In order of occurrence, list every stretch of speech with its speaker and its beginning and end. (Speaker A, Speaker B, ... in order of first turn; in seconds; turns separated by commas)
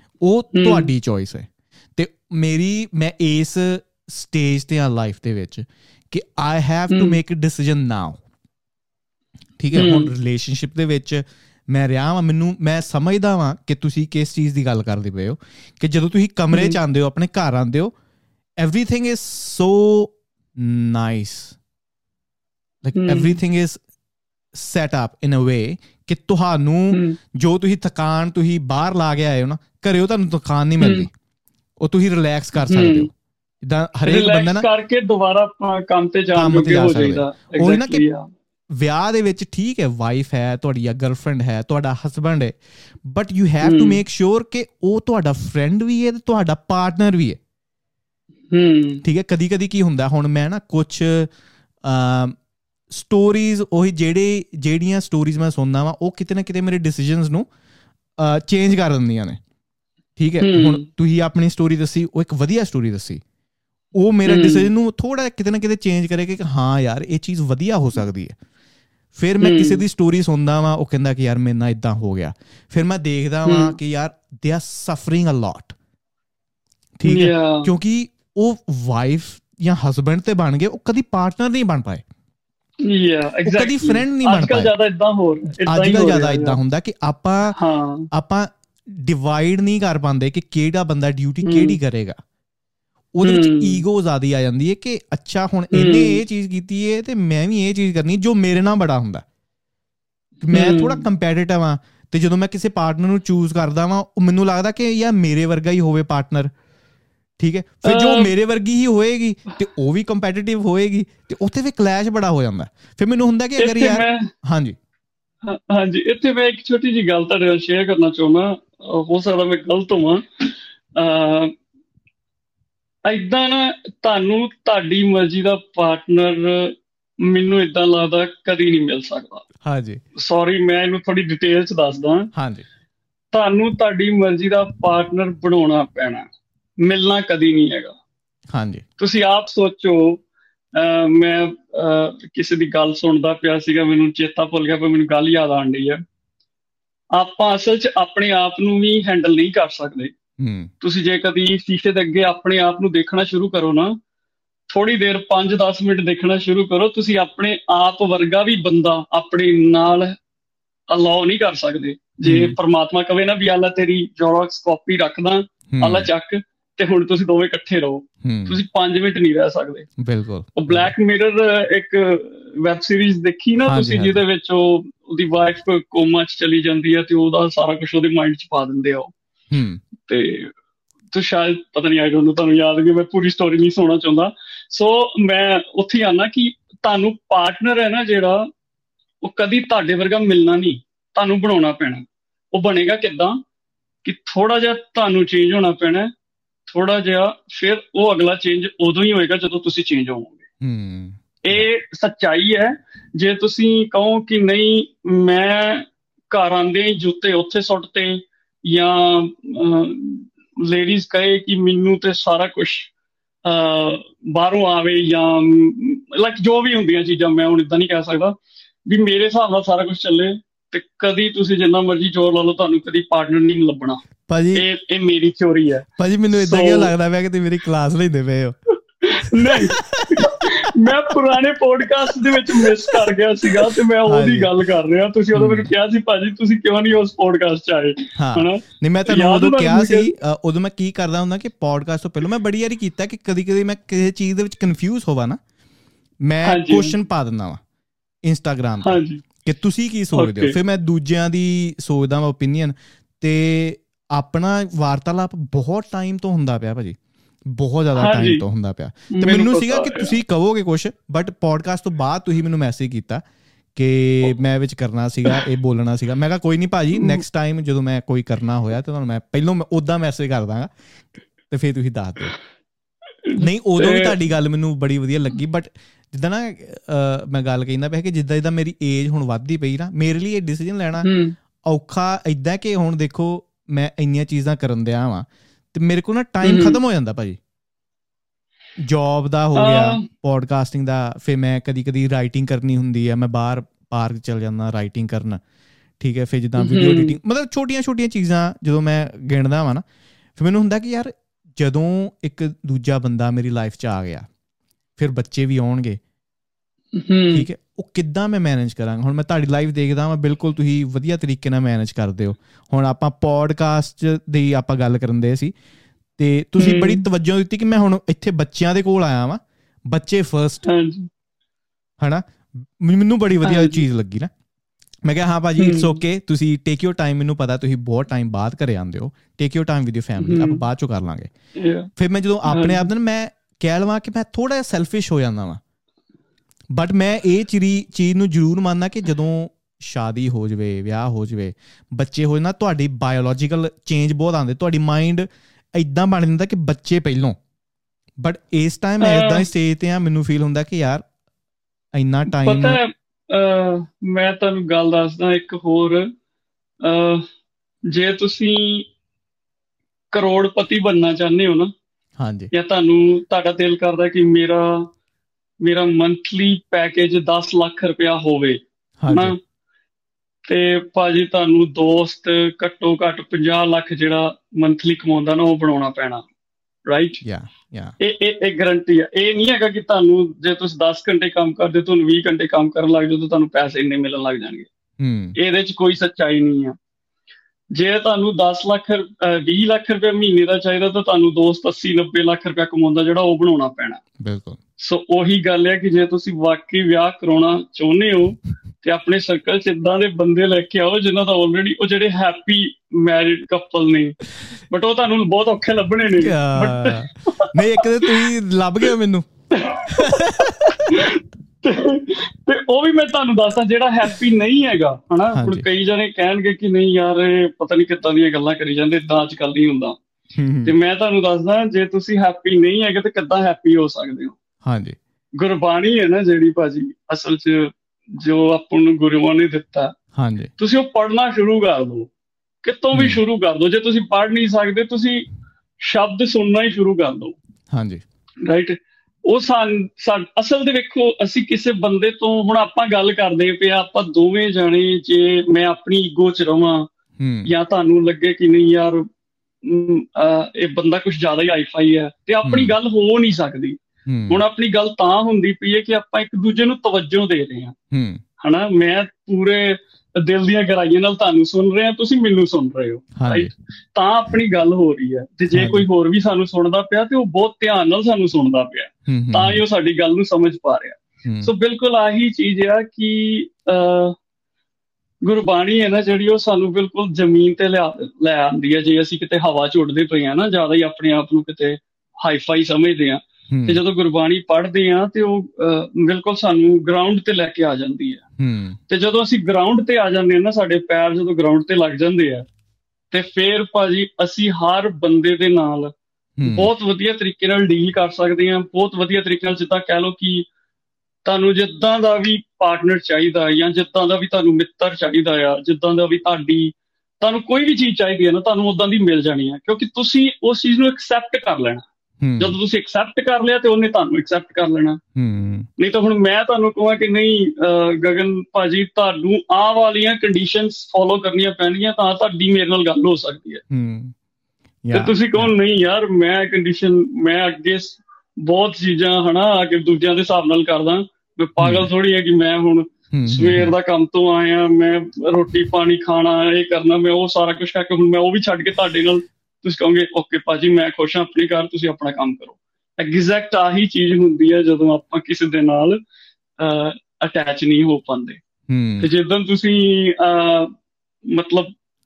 Speaker A: 0.2-8.2, Speaker B: 0.5-0.9, Speaker B: 6.9-7.2, Speaker A: 9.6-17.9, Speaker B: 9.8-10.1, Speaker B: 16.5-16.8, Speaker A: 18.6-21.6, Speaker A: 22.8-23.8, Speaker B: 22.9-23.4, Speaker A: 24.5-31.1, Speaker B: 26.9-27.2, Speaker B: 30.8-31.1, Speaker A: 31.8-33.1, Speaker B: 32.7-33.1, Speaker A: 33.6-34.7, Speaker B: 34.1-38.3, Speaker A: 36.4-38.0, Speaker A: 38.7-47.4, Speaker B: 43.6-44.0, Speaker B: 48.5-49.0, Speaker A: 49.0-51.3, Speaker A: 51.8-52.4, Speaker A: 52.9-57.5, Speaker A: 58.2-59.4, Speaker A: 60.2-63.2, Speaker B: 60.4-60.9, Speaker A: 64.0-68.3, Speaker B: 64.3-64.7, Speaker A: 69.2-75.8, Speaker B: 69.4-69.8, Speaker B: 73.5-73.8, Speaker A: 77.0-82.0, Speaker B: 77.1-77.7, Speaker B: 82.8-86.6, Speaker A: 83.5-84.7, Speaker A: 85.6-87.6, Speaker B: 87.5-88.1, Speaker A: 88.1-92.2, Speaker B: 91.4-91.8, Speaker A: 93.2-99.2, Speaker B: 93.2-93.8, Speaker B: 95.7-96.2, Speaker A: 100.4-106.5, Speaker B: 100.5-101.0, Speaker A: 107.4-114.8, Speaker B: 107.8-108.3, Speaker B: 113.6-114.3, Speaker B: 115.4-121.5, Speaker B: 123.0-129.4, Speaker A: 129.6-130.0, Speaker B: 130.2-132.3, Speaker A: 132.3-132.7, Speaker B: 133.3-136.3, Speaker B: 136.8-137.9, Speaker A: 138.5-138.8, Speaker B: 139.0-140.2, Speaker B: 140.7-146.0, Speaker B: 147.2-150.1, Speaker A: 150.4-150.7, Speaker B: 150.8-154.0, Speaker B: 154.7-160.2, Speaker B: 160.9-169.9, Speaker A: 162.2-162.6, Speaker A: 165.7-166.1, Speaker A: 168.2-168.6, Speaker A: 170.0-170.9, Speaker B: 170.6-179.1, Speaker A: 173.7-174.2, Speaker A: 179.5-179.8, Speaker B: 180.0-180.5, Speaker B: 181.1-188.5, Speaker B: 189.2-193.4, Speaker B: 194.0-196.1, Speaker B: 196.7-200.4, Speaker A: 200.6-201.7, Speaker B: 201.4-212.9, Speaker B: 213.4-218.3, Speaker B: 218.9-224.0, Speaker A: 224.3-224.7, Speaker B: 224.6-226.9, Speaker A: 226.0-228.6, Speaker B: 229.0-240.1, Speaker A: 229.4-231.1, Speaker A: 232.1-234.5, Speaker A: 235.3-235.7, Speaker A: 238.2-245.4, Speaker A: 246.2-247.6, Speaker B: 246.4-246.9, Speaker A: 248.2-257.0, Speaker B: 248.8-249.2, Speaker B: 250.2-250.6, Speaker A: 257.5-263.2, Speaker B: 258.0-258.4, Speaker B: 259.1-260.1, Speaker A: 263.8-270.7, Speaker B: 266.9-267.2, Speaker A: 271.5-272.4, Speaker B: 273.2-274.1, Speaker A: 273.4-281.1, Speaker B: 281.0-281.4, Speaker A: 281.6-287.4, Speaker B: 286.4-286.8, Speaker A: 288.8-295.4, Speaker B: 289.6-290.1, Speaker A: 296.0-299.8, Speaker B: 296.6-297.2, Speaker A: 300.4-304.3, Speaker A: 305.0-306.0, Speaker B: 306.9-307.5, Speaker A: 307.3-315.5, Speaker A: 316.2-320.7, Speaker B: 316.6-317.0, Speaker B: 320.6-321.1, Speaker A: 322.0-324.3, Speaker B: 323.4-323.8, Speaker A: 325.1-331.3, Speaker B: 325.6-326.0, Speaker B: 330.2-330.6, Speaker B: 331.6-331.9, Speaker A: 332.0-335.6, Speaker B: 332.5-332.9, Speaker A: 336.7-347.4, Speaker A: 348.2-351.1, Speaker B: 349.0-349.4, Speaker A: 351.9-352.8, Speaker B: 352.3-356.1, Speaker B: 356.8-357.2, Speaker B: 357.9-358.9, Speaker B: 360.1-361.7, Speaker A: 362.2-362.5, Speaker B: 362.5-364.9, Speaker B: 365.6-369.4, Speaker A: 369.0-369.4, Speaker B: 370.5-376.2, Speaker B: 376.9-377.2, Speaker A: 377.2-377.9, Speaker B: 378.0-384.7, Speaker A: 385.0-385.4, Speaker B: 385.4-386.8, Speaker B: 387.7-394.0, Speaker A: 394.2-394.6, Speaker B: 394.8-404.2, Speaker B: 404.7-408.3, Speaker A: 406.2-411.0, Speaker B: 409.5-420.0, Speaker A: 415.3-415.7, Speaker A: 420.4-420.8, Speaker B: 420.6-424.3, Speaker A: 424.6-425.0, Speaker B: 425.4-429.9, Speaker A: 430.1-430.5, Speaker B: 430.6-432.1, Speaker B: 432.6-435.2, Speaker A: 432.9-433.2, Speaker B: 435.8-437.4, Speaker A: 437.7-438.0, Speaker B: 438.4-446.9, Speaker A: 447.2-447.5, Speaker B: 447.5-449.1, Speaker B: 449.6-457.8, Speaker A: 452.4-452.8, Speaker A: 454.1-454.4, Speaker A: 457.9-458.2, Speaker B: 458.4-474.2, Speaker A: 463.2-463.5, Speaker A: 465.5-465.9, Speaker A: 469.1-469.6, Speaker A: 471.2-471.5, Speaker B: 475.2-488.2, Speaker A: 483.5-483.8, Speaker A: 488.4-488.8, Speaker B: 488.9-492.5, Speaker B: 493.1-495.9, Speaker A: 496.4-496.7, Speaker B: 496.4-500.5, Speaker B: 501.2-511.8, Speaker A: 512.2-512.6, Speaker B: 512.4-515.0, Speaker A: 515.2-515.7, Speaker B: 515.8-523.6, Speaker A: 523.7-524.1, Speaker A: 524.9-525.5, Speaker B: 524.9-546.0, Speaker A: 531.6-531.9, Speaker A: 533.1-533.7, Speaker B: 546.6-548.4, Speaker A: 548.7-549.1, Speaker B: 549.0-550.7, Speaker B: 551.3-551.7